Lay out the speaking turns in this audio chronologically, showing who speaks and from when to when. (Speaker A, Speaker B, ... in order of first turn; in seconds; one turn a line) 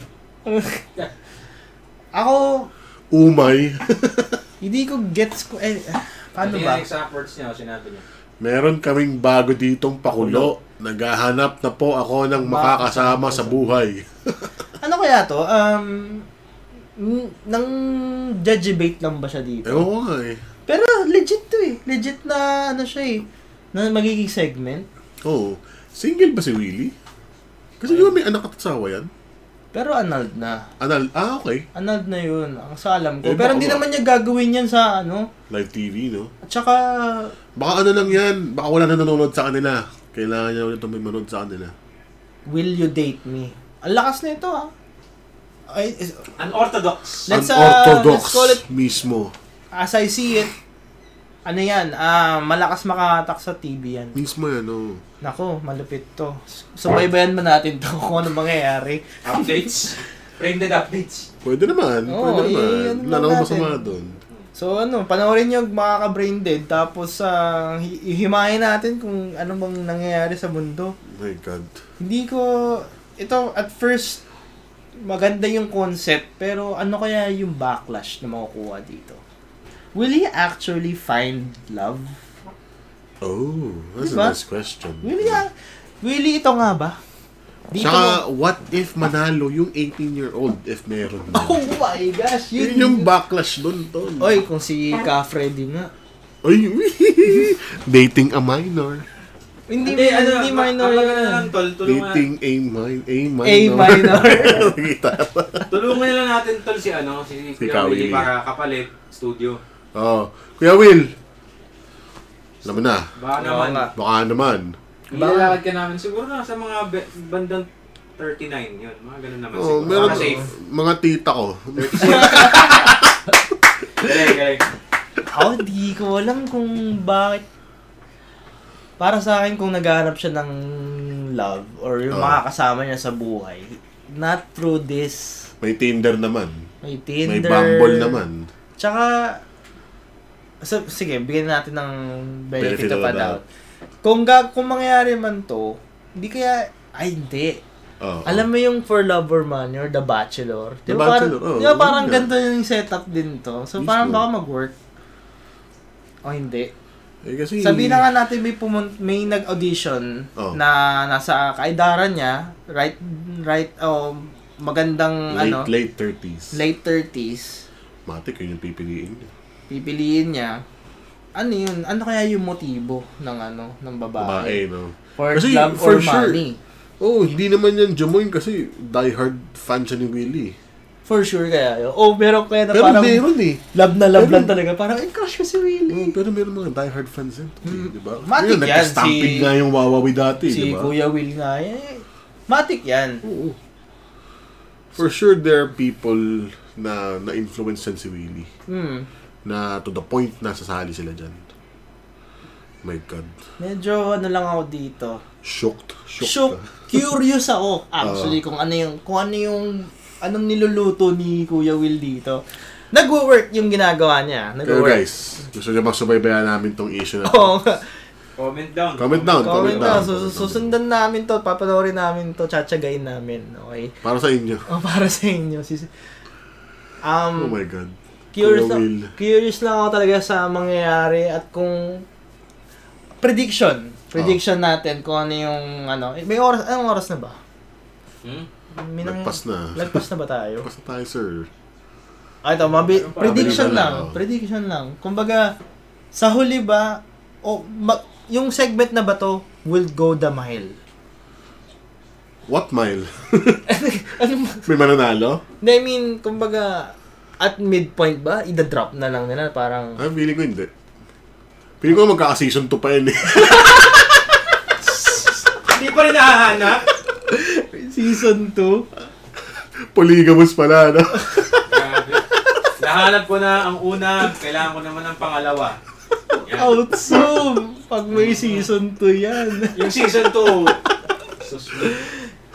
Speaker A: 0.5-0.8
Speaker A: 2.1-2.7
Speaker B: 3.1-4.4
Speaker A: 4.6-6.8
Speaker C: 6.4-8.0
Speaker B: 8.4-14.5
Speaker A: 10.1-10.5
Speaker A: 12.4-13.5
Speaker A: 14.8-16.2
Speaker A: 17.0-19.9
Speaker B: 19.6-20.4
Speaker A: 20.7-24.9
Speaker B: 25.2-26.9
Speaker B: 27.8-29.1
Speaker A: 29.7-30.6
Speaker B: 30.8-31.6
Speaker A: 31.7-35.3
Speaker B: 33.2-33.8
Speaker B: 35.5-36.3
Speaker A: 36.5-37.3
Speaker B: 37.5-41.7
Speaker A: 42.5-44.7
Speaker A: 45.7-46.2
Speaker C: 46.4-47.2
Speaker A: 47.3-48.6
Speaker B: 47.3-49.3
Speaker A: 49.7-50.5
Speaker A: 51.5-54.2
Speaker B: 54.1-55.0
Speaker A: 55.2-59.4
Speaker C: 59.2-61.3
Speaker B: 61.4-64.2
Speaker A: 62.1-63.9
Speaker A: 64.6-70.9
Speaker B: 71.1-71.8
Speaker A: 72.0-74.2
Speaker A: 75.0-79.2
Speaker A: 80.0-82.2
Speaker B: 83.2-85.4
Speaker A: 84.0-84.4
Speaker A: 85.0-85.5
Speaker A: 86.0-87.0
Speaker A: 87.7-88.2
Speaker B: 87.8-91.6
Speaker A: 91.3-93.1
Speaker B: 92.5-94.3
Speaker A: 94.2-95.9
Speaker B: 96.4-99.0
Speaker A: 99.7-101.5
Speaker C: 99.8-102.2
Speaker B: 101.8-105.7
Speaker A: 103.4-104.7
Speaker C: 105.7-109.6
Speaker B: 107.6-108.3
Speaker B: 109.9-111.1
Speaker B: 112.6-113.1
Speaker C: 113.2-113.9
Speaker A: 113.4-113.9
Speaker B: 113.9-114.8
Speaker C: 115.1-117.7
Speaker A: 115.1-115.6
Speaker C: 118.2-120.4
Speaker B: 119.5-122.7
Speaker A: 119.9-120.5
Speaker C: 121.8-123.1
Speaker A: 122.0-122.9
Speaker C: 124.0-124.6
Speaker A: 125.3-127.5
Speaker A: 129.0-135.5
Speaker B: 132.1-132.4
Speaker B: 135.6-136.7
Speaker A: 136.8-138.2
Speaker B: 137.2-138.5
Speaker A: 138.8-139.4
Speaker A: 140.6-143.4
Speaker B: 142.6-143.4
Speaker A: 144.0-147.6
Speaker B: 148.0-148.4
Speaker A: 148.2-154.7
Speaker B: 150.9-152.3
Speaker B: 153.8-154.2
Speaker A: 156.2-156.7
Speaker B: 157.2-158.1
Speaker A: 157.6-165.7
Speaker B: 165.3-166.6
Speaker A: 166.5-167.6
Speaker B: 168.1-169.3
Speaker A: 169.7-170.6
Speaker A: 171.3-174.6
Speaker B: 174.2-176.4
Speaker A: 175.2-176.6
Speaker B: 177.0-180.6
Speaker A: 181.1-186.1
Speaker B: 182.7-183.6
Speaker B: 184.1-184.5
Speaker B: 185.9-190.9
Speaker A: 187.6-189.5
Speaker A: 190.5-193.2
Speaker B: 193.2-193.6
Speaker B: 194.9-198.5
Speaker A: 198.7-199.1
Speaker B: 199.4-201.5
Speaker B: 202.8-203.3
Speaker A: 203.6-205.2
Speaker B: 205.4-207.0
Speaker A: 206.2-215.0
Speaker B: 208.0-208.4
Speaker B: 214.6-217.6
Speaker A: 217.2-217.8
Speaker C: 218.4-220.0
Speaker B: 219.0-220.7
Speaker A: 219.4-223.9
Speaker B: 224.0-224.7
Speaker A: 224.7-225.9
Speaker A: 227.0-227.6
Speaker B: 227.4-229.1
Speaker A: 228.3-232.0
Speaker A: 233.2-237.4
Speaker A: 238.7-240.7
Speaker B: 239.0-240.1
Speaker B: 240.6-241.5
Speaker A: 242.4-245.5
Speaker C: 242.7-243.8
Speaker B: 243.2-244.2
Speaker A: 246.1-250.8
Speaker B: 252.5-253.6
Speaker A: 253.7-254.7
Speaker B: 254.7-255.4
Speaker A: 255.6-260.0
Speaker B: 260.0-260.7
Speaker B: 261.8-264.1
Speaker C: 265.0-266.8
Speaker A: 267.3-268.9
Speaker B: 269.9-271.8
Speaker C: 271.7-272.2
Speaker C: 272.8-275.8
Speaker A: 276.4-280.8
Speaker C: 276.5-276.8
Speaker C: 278.1-278.7
Speaker C: 279.7-280.8
Speaker C: 281.4-282.0
Speaker A: 281.8-282.1